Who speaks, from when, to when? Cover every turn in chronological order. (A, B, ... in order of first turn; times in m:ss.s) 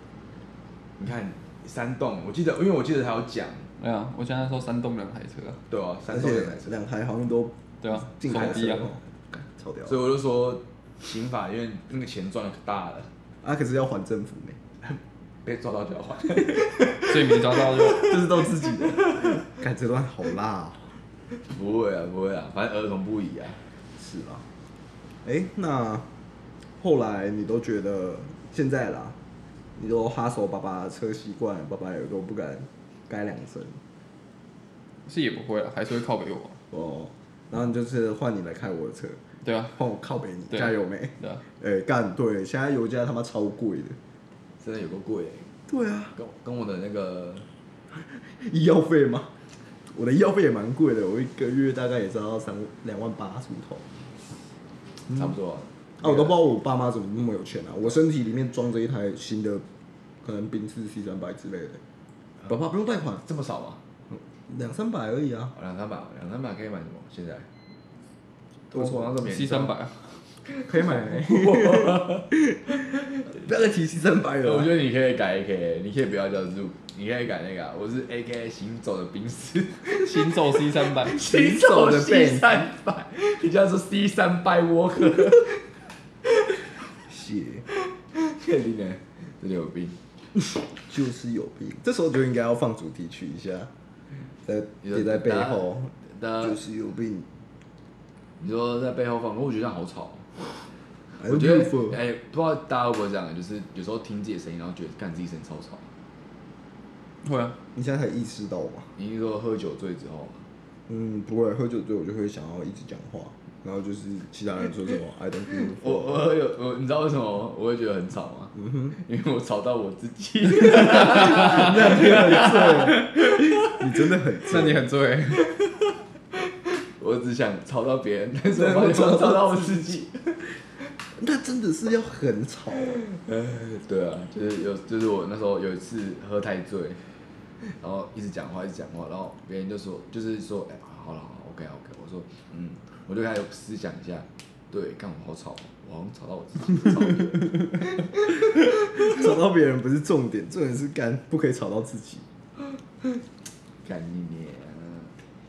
0:01.0-0:03.7 A
0:03.8-0:05.6 B
0:05.7-0:06.8 A
0:06.1-0:10.0 C
0:07.8-0:08.9 B
0:08.3-0:08.6 A
0:09.9-0:13.1 A
0:13.4-0:14.6 C
0:15.4-0:19.4 A
0:16.9-0:18.2 B
0:17.8-0:21.0 C
0:21.4-0:23.6 A
0:24.0-0:24.5 C
0:25.2-0:26.1 C
0:26.8-0:29.2 C
0:29.8-0:33.8 C
0:35.1-0:36.6 B
0:36.7-0:39.2 C
0:39.4-0:39.8 B
0:39.8-0:44.0 C
0:40.5-0:41.4 B
0:44.6-0:45.5 A
0:45.7-0:46.1 C
0:46.2-0:47.5 A
0:47.9-0:49.3 C
0:49.9-0:53.9 C
0:55.1-0:56.4 A
0:56.0-0:59.6 C
1:00.2-1:01.8 C
1:02.5-1:03.2 C
1:03.2-1:03.8 A
1:04.1-1:05.5 C
1:05.5-1:07.5 A
1:08.7-1:09.8 A
1:08.7-1:10.2 B
1:10.5-1:12.3 A
1:10.7-1:14.7 C
1:14.4-1:25.7 A
1:19.9-1:21.2 B
1:21.2-1:22.7 C
1:26.3-1:26.6 A
1:27.1-1:27.7 C
1:27.7-1:30.0 A
1:30.7-1:33.7 C
1:34.4-1:37.3 C
1:34.8-1:36.6 A
1:38.4-1:40.7 A
1:41.2-1:42.0 C
1:41.2-1:45.9 A
1:47.2-1:47.6 B
1:47.8-1:48.9 C
1:49.0-1:50.4 A
1:50.9-1:56.2 C
1:55.6-2:03.8 A
1:58.6-1:59.0 C
2:00.6-2:04.9 C
2:00.7-2:02.9 B
2:04.4-2:05.5 B
2:05.6-2:10.5 A
2:08.6-2:10.0 C
2:11.2-2:13.0 C
2:12.9-2:17.0 A
2:17.6-2:29.1 A
2:28.6-2:32.2 C
2:33.8-2:35.1 A